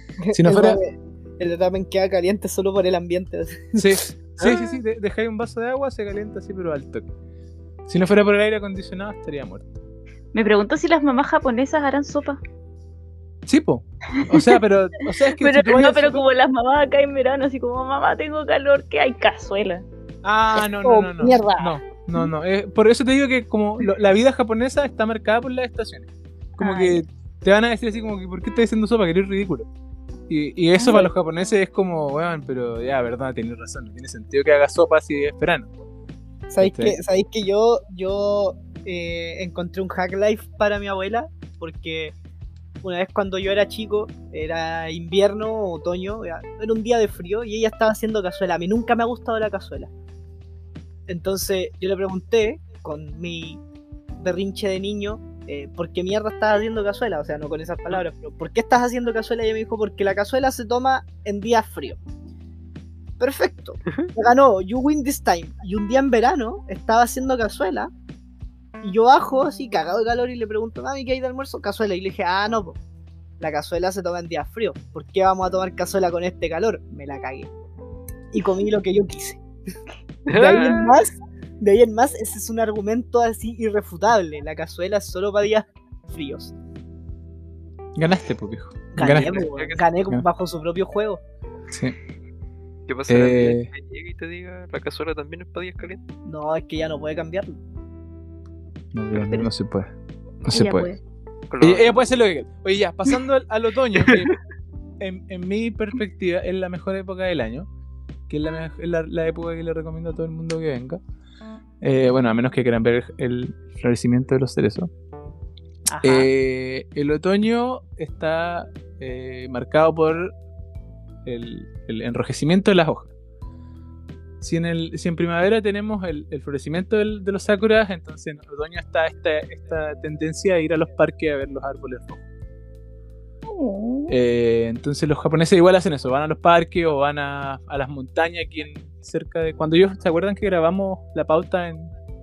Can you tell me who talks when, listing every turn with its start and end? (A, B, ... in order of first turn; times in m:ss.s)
0:00.2-0:04.0 A
0:00.3-0:00.8 B
0:03.8-0:07.1 B
0:07.9-0:09.8 B
0:10.3-0:12.4 C
0:13.4-0:16.2 B
0:14.2-0:14.6 C
0:15.4-0:19.8 C
0:20.2-0:29.7 B
0:20.7-0:21.8 A
0:26.6-0:27.0 C
0:30.3-0:35.7 B
0:30.8-0:31.1 A
0:36.5-0:42.1 A
0:36.6-0:37.0 B
0:42.8-0:49.9 A
0:51.1-0:53.6 A
0:54.2-1:02.0 A
1:03.2-1:07.9 A
1:08.8-1:12.8 A
1:13.4-1:17.5 A
1:18.3-1:19.4 A
1:20.3-1:20.9 D
1:20.3-1:26.5 A
1:28.0-1:29.4 B
1:28.9-1:31.2 A
1:29.1-1:29.8 D
1:31.7-1:32.0 B
1:32.9-1:36.0 D
1:33.1-1:33.7 B
1:36.2-1:37.6 A
1:38.9-1:39.9 B
1:39.2-1:39.5 C
1:40.4-1:41.0 B
1:40.5-1:41.0 C
1:41.5-1:42.1 D
1:41.6-1:44.4 B
1:45.0-1:47.7 B
1:48.3-1:51.0 B
1:51.8-1:54.9 B
1:55.9-1:56.3 A
1:56.0-2:00.3 B
2:01.2-2:03.1 B
2:04.4-2:12.2 B
2:13.4-2:14.1 C
2:14.1-2:21.9 B